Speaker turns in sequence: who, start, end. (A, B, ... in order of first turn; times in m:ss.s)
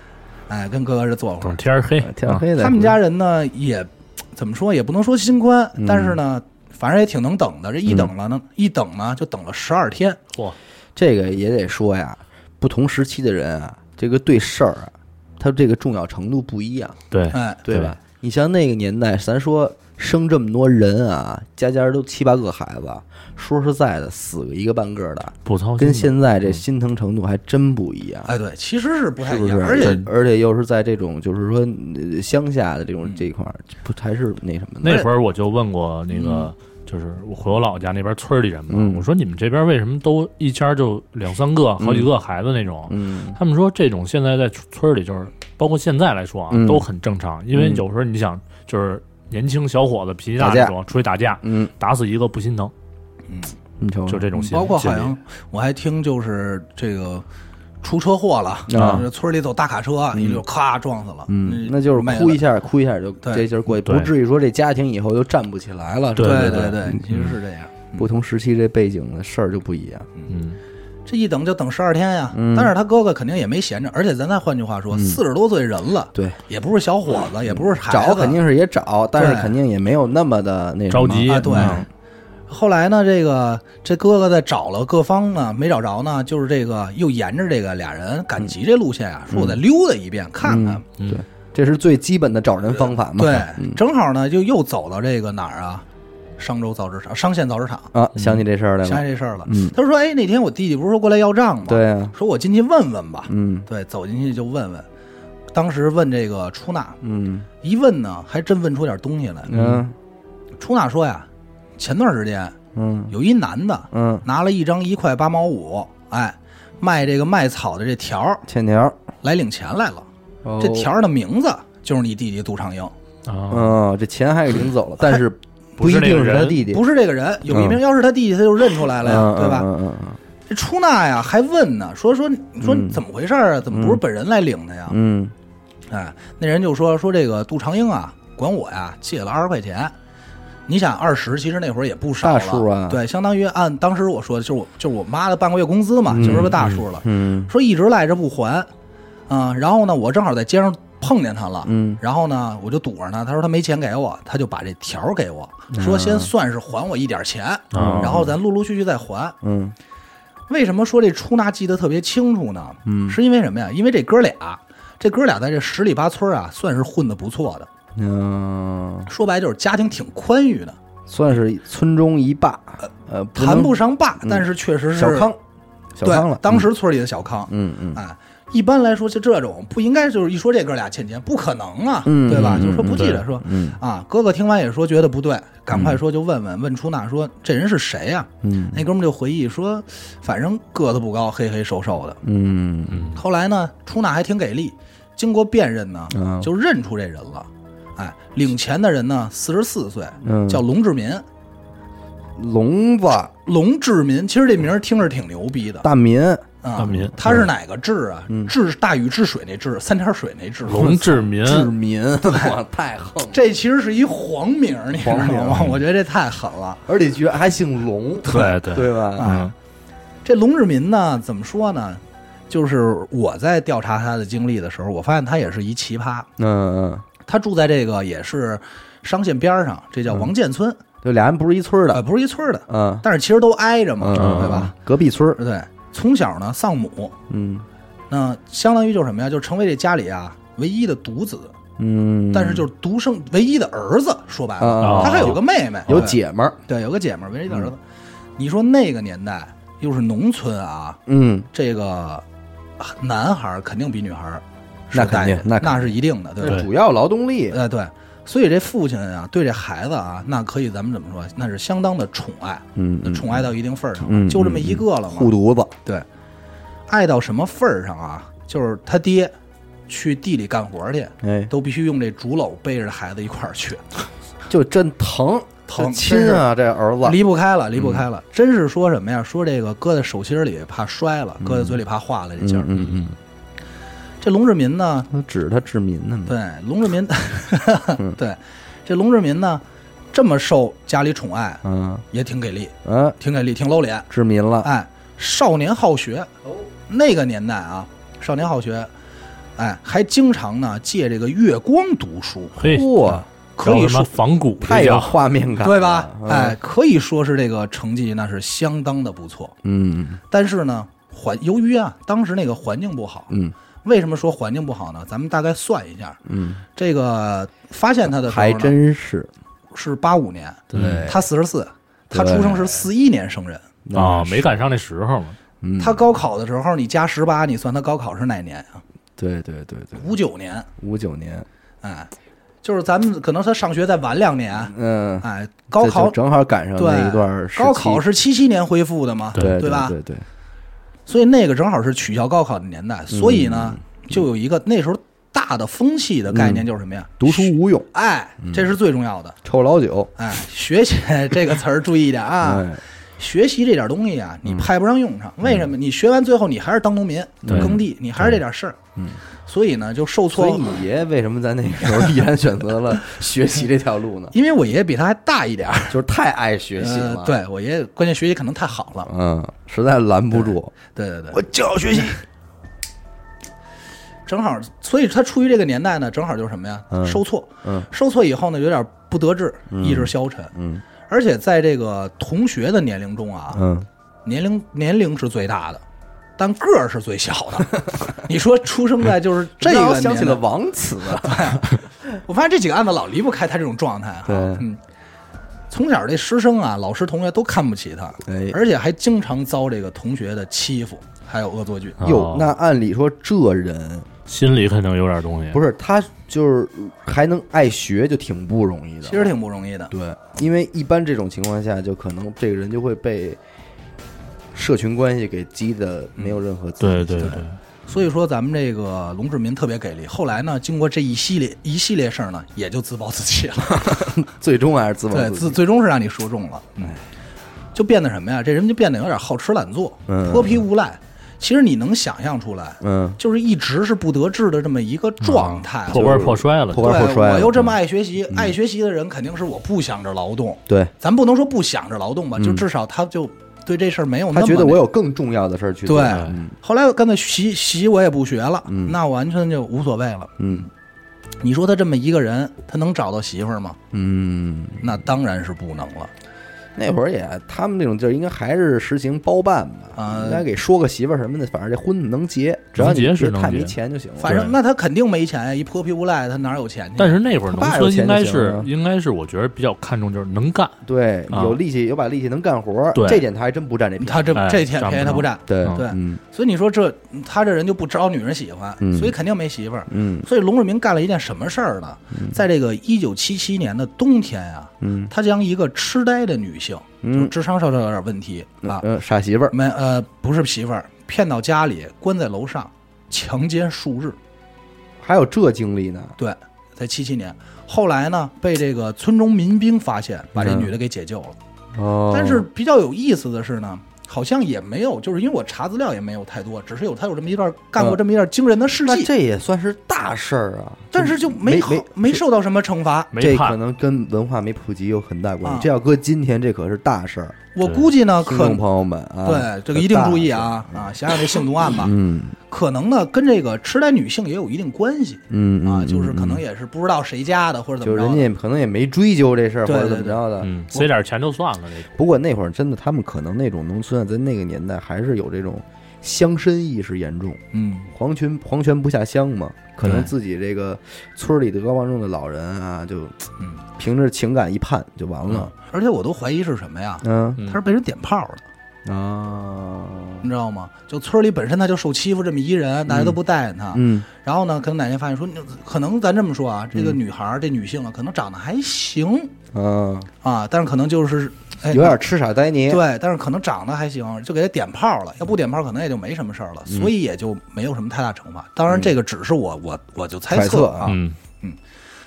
0:00.5-0:01.6 A
0:01.4-0:02.4 B
0:02.0-0:03.0 C
0:02.5-0:10.2 A
0:05.8-0:06.2 C
0:11.0-0:17.0 C
0:17.1-0:17.9 B
0:17.3-0:17.6 A
0:17.6-0:28.3 C
0:25.5-0:26.6 B
0:28.3-0:30.0 A
0:29.2-0:35.1 C
0:34.8-0:52.7 B
0:38.7-0:39.0 C
0:41.8-0:42.1 C
0:42.9-0:43.4 C
0:46.5-0:46.9 C
0:47.5-0:47.8 C
0:50.4-0:50.8 C
0:51.4-0:51.7 C
0:53.8-0:54.3 C
0:54.1-0:55.1 B
0:54.4-0:57.2 A
0:57.8-1:02.4 A
0:58.7-0:59.1 C
0:58.7-0:59.1 B
1:00.1-1:00.4 C
1:01.3-1:07.0 C
1:03.2-1:03.5 A
1:03.8-1:04.1 B
1:06.2-1:07.3 B
1:06.2-1:08.1 A
1:08.0-1:10.1 C
1:10.3-1:10.6 B
1:11.1-1:18.4 A
1:12.3-1:12.7 C
1:14.9-1:15.2 C
1:16.1-1:16.4 C
1:17.5-1:21.9 C
1:19.2-1:19.6 A
1:20.9-1:21.9 B
1:21.3-1:21.9 A
1:22.5-1:30.8 A
1:29.3-1:29.6 C
1:30.4-1:33.8 C
1:33.2-1:35.8 A
1:36.4-1:37.9 A
1:37.9-1:39.8 C
1:38.8-1:44.9 A
1:41.7-1:42.2 C
1:43.3-1:43.7 C
1:45.5-1:47.0 A
1:47.0-1:47.5 C
1:47.6-1:49.7 A
1:49.5-1:49.9 C
1:50.6-1:52.6 A
1:52.8-1:53.1 C
1:53.1-1:58.4 A
1:53.9-1:54.2 C
1:58.5-1:59.0 C
1:59.2-2:00.1 A
2:00.4-2:00.9 C
2:00.6-2:02.9 A
2:03.3-2:03.8 B
2:03.5-2:06.8 C
2:05.8-2:06.6 B
2:06.7-2:09.7 A
2:07.5-2:07.8 C
2:09.0-2:10.2 C
2:10.5-2:15.0 A
2:12.6-2:13.0 C
2:13.7-2:14.0 C
2:14.9-2:15.3 C
2:15.9-2:19.9 A
2:20.7-2:28.7 A
2:22.2-2:23.0 C
2:26.1-2:27.5 C
2:26.2-2:26.8 B
2:29.3-2:39.4 A
2:31.7-2:32.0 C
2:35.7-2:36.3 C
2:37.7-2:38.2 B
2:37.7-2:38.4 C
2:39.4-2:39.8 C
2:40.5-2:47.7 A
2:42.8-2:43.2 C
2:48.0-2:49.1 C
2:49.1-2:50.8 A
2:51.1-2:55.4 C
2:52.8-2:55.3 A
2:56.0-2:56.7 C
2:56.0-3:12.2 A
2:57.5-2:58.0 C
3:02.0-3:03.8 C
3:02.3-3:03.2 B
3:05.7-3:06.0 C
3:08.4-3:08.8 C
3:12.2-3:13.1 C
3:12.9-3:13.2 B
3:13.2-3:21.2 A
3:16.1-3:16.5 C
3:20.2-3:20.6 C
3:22.4-3:23.3 C
3:23.4-3:25.9 A
3:25.8-3:26.4 C
3:26.6-3:31.0 A
3:26.8-3:27.4 B
3:30.7-3:31.7 B
3:30.7-3:33.4 C
3:33.3-3:36.8 A
3:34.9-3:35.8 C
3:36.9-3:39.4 C
3:38.3-3:39.5 B
3:39.2-3:39.5 A
3:40.2-3:46.3 A
3:46.4-3:47.1 C
3:47.2-3:50.8 A
3:51.0-3:52.0 C
3:51.9-3:54.7 A
3:52.7-3:53.1 C
3:54.0-3:55.4 C
3:54.1-3:54.7 B
3:55.4-3:57.2 A
3:57.3-3:57.7 C
3:58.1-4:01.6 A
4:01.8-4:02.7 C
4:02.3-4:07.8 A
4:04.6-4:06.6 C
4:04.8-4:06.0 B
4:08.4-4:11.0 A
4:11.1-4:11.5 C
4:11.5-4:12.2 A
4:12.8-4:16.7 A
4:14.9-4:17.6 C
4:17.5-4:25.3 A
4:22.8-4:23.5 C
4:24.0-4:25.7 C
4:26.9-4:29.3 A
4:29.9-4:33.8 A
4:31.2-4:31.5 C
4:34.5-4:37.2 C
4:35.7-4:36.4 A
4:37.0-4:42.7 A
4:37.8-4:38.0 C
4:41.4-4:41.8 C
4:42.4-4:43.2 C
4:42.7-4:43.0 B
4:44.2-4:45.1 A
4:45.1-4:46.4 C
4:46.3-4:54.1 A
4:51.6-4:52.0 C
4:52.8-4:53.2 C
4:54.1-4:54.7 C
4:54.6-4:56.3 A
4:56.9-4:58.9 A
4:59.6-5:02.7 A
5:02.6-5:05.2 B
5:02.6-5:03.3 C
5:03.6-5:04.1 A
5:04.6-5:06.6 C
5:05.6-5:09.6 A
5:09.6-5:10.2 C
5:10.3-5:13.3 A
5:13.3-5:13.6 C
5:13.8-5:16.2 A
5:16.3-5:16.6 C
5:16.8-5:18.8 A
5:18.1-5:19.3 C
5:19.7-5:23.7 A
5:20.7-5:21.3 C
5:20.7-5:21.1 B
5:22.1-5:22.8 C
5:23.8-5:24.5 C
5:23.9-5:25.4 B
5:25.6-5:26.0 C
5:25.8-5:28.8 A
5:29.2-5:30.1 C
5:29.9-5:30.7 A
5:30.8-5:31.5 C
5:31.8-5:32.1 A
5:32.6-5:36.2 A
5:34.6-5:38.0 C
5:36.8-5:40.0 A
5:39.4-5:40.2 C
5:41.1-5:49.4 A
5:43.1-5:43.8 C
5:46.3-5:46.7 C
5:47.2-5:47.9 C
5:48.4-5:48.7 C
5:49.4-5:50.1 C
5:50.2-5:58.8 A
5:52.4-5:52.8 C
5:57.4-5:58.4 C
5:57.5-5:57.8 B
5:59.5-6:00.6 A
6:00.3-6:04.4 C
6:01.9-6:02.1 A
6:04.3-6:06.0 A
6:05.9-6:07.4 C
6:06.8-6:09.1 A
6:09.1-6:10.8 C
6:10.3-6:12.2 A
6:11.3-6:12.2 C
6:14.3-6:20.5 A
6:16.9-6:17.9 C
6:19.7-6:20.8 C
6:21.1-6:23.6 A
6:23.5-6:23.9 C
6:24.2-6:25.8 A
6:26.4-6:30.4 A
6:29.6-6:31.6 C
6:31.1-6:34.8 A
6:34.3-6:34.7 C
6:35.7-6:42.0 A
6:38.3-6:38.6 C
6:42.0-6:42.5 B
6:42.0-6:44.1 C
6:44.3-6:45.6 B
6:45.5-6:49.3 C
6:49.0-6:49.9 A
6:49.9-6:53.4 C
6:54.5-6:57.4 C
6:56.8-6:57.6 B
6:57.9-7:04.1 A
7:03.7-7:05.6 C
7:05.1-7:07.0 A
7:07.8-7:24.8 A
7:10.1-7:10.6 C
7:12.8-7:13.2 C
7:15.2-7:17.0 B
7:15.9-7:17.7 C
7:20.7-7:20.9 C
7:22.4-7:22.7 C
7:24.3-7:26.6 C
7:25.9-7:30.7 A
7:26.0-7:26.4 B
7:28.7-7:29.0 C
7:30.4-7:30.7 C
7:31.4-7:33.8 A
7:33.9-7:35.0 C
7:34.8-7:36.1 A
7:36.8-7:44.4 C
7:40.0-7:40.5 A
7:42.7-7:44.5 B
7:44.2-7:47.2 A
7:47.0-7:50.8 B
7:47.5-7:48.7 C
7:50.8-7:54.4 C
7:51.3-7:51.6 B
7:53.0-7:53.2 B
7:54.0-8:08.9 A
7:54.4-7:55.8 B
7:55.5-7:56.2 C
7:58.8-7:59.2 C
7:59.9-8:00.3 C
8:04.8-8:05.1 C
8:07.0-8:07.3 C
8:08.6-8:09.6 C
8:09.5-8:14.2 A
8:15.0-8:16.2 C
8:16.2-8:21.4 A
8:20.4-8:20.7 C
8:21.7-8:22.5 C
8:22.1-8:29.1 A
8:28.8-8:32.2 C
8:30.9-8:33.1 A
8:33.1-8:33.6 B
8:33.2-8:37.4 C
8:35.4-8:35.7 A
8:37.6-8:38.6 A
8:38.2-8:42.4 C
8:39.2-8:42.0 A
8:42.5-8:48.3 A
8:45.3-8:46.4 C
8:47.8-8:50.5 C
8:49.6-8:50.9 A
8:50.4-8:51.9 B
8:52.0-8:57.4 C
8:57.5-8:57.9 A
8:57.9-9:03.2 C
8:59.8-9:00.1 B
9:03.8-9:05.5 C
9:05.5-9:08.4 A
9:07.0-9:07.4 C
9:08.8-9:10.3 C
9:10.2-9:19.3 A
9:12.9-9:13.2 C
9:13.7-9:14.1 C
9:19.5-9:20.1 C
9:20.2-9:22.0 A
9:21.7-9:22.8 C
9:22.7-9:31.6 A
9:30.3-9:31.0 C
9:30.8-9:31.2 B